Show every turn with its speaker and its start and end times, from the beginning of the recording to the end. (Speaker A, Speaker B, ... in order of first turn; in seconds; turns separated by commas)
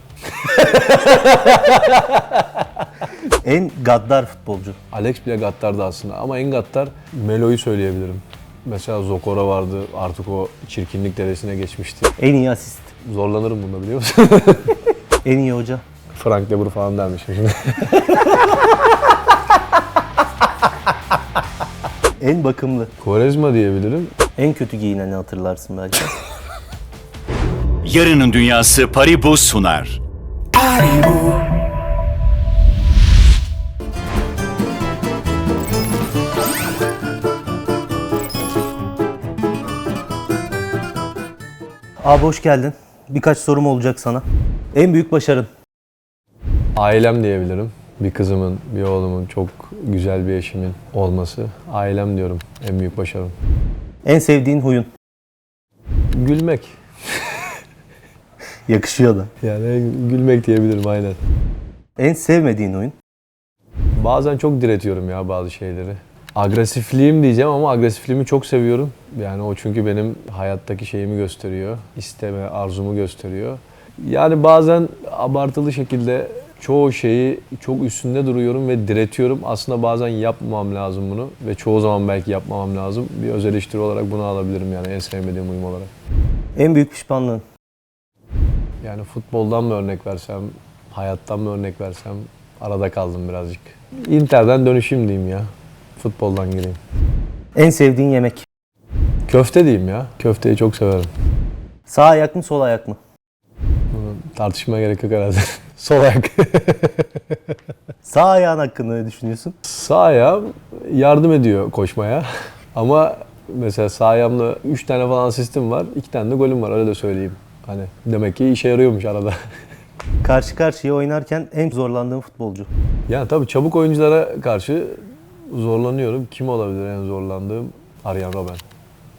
Speaker A: 0.3-2.9, Speaker B: 3.4-4.8, Speaker A: 4.9-12.1, Speaker B: 12.2-12.9, Speaker A: 13.0-14.9, Speaker B: 15.2-15.8, Speaker A: 16.1-19.1, Speaker B: 22.2-22.9, Speaker A: 23.0-24.1, Speaker B: 24.4-26.1, Speaker C: 27.8-30.0, Speaker B: 42.0-45.5, Speaker A: 46.8-53.3, Speaker B: 54.0-54.9, Speaker A: 56.1-57.6, Speaker B: 58.7-59.3, Speaker A: 59.4-61.2, Speaker B: 62.0-63.0, Speaker A: 64.0-85.9, Speaker B: 86.6-87.4, Speaker A: 88.8-96.8, Speaker B: 97.5-98.5, Speaker A: 99.3-101.1, Speaker B: 101.9-103.0, Speaker A: 103.9-107.6, Speaker B: 108.0-109.6, Speaker A: 109.7-119.4, Speaker B: 120.2-122.7, Speaker A: 123.1-128.6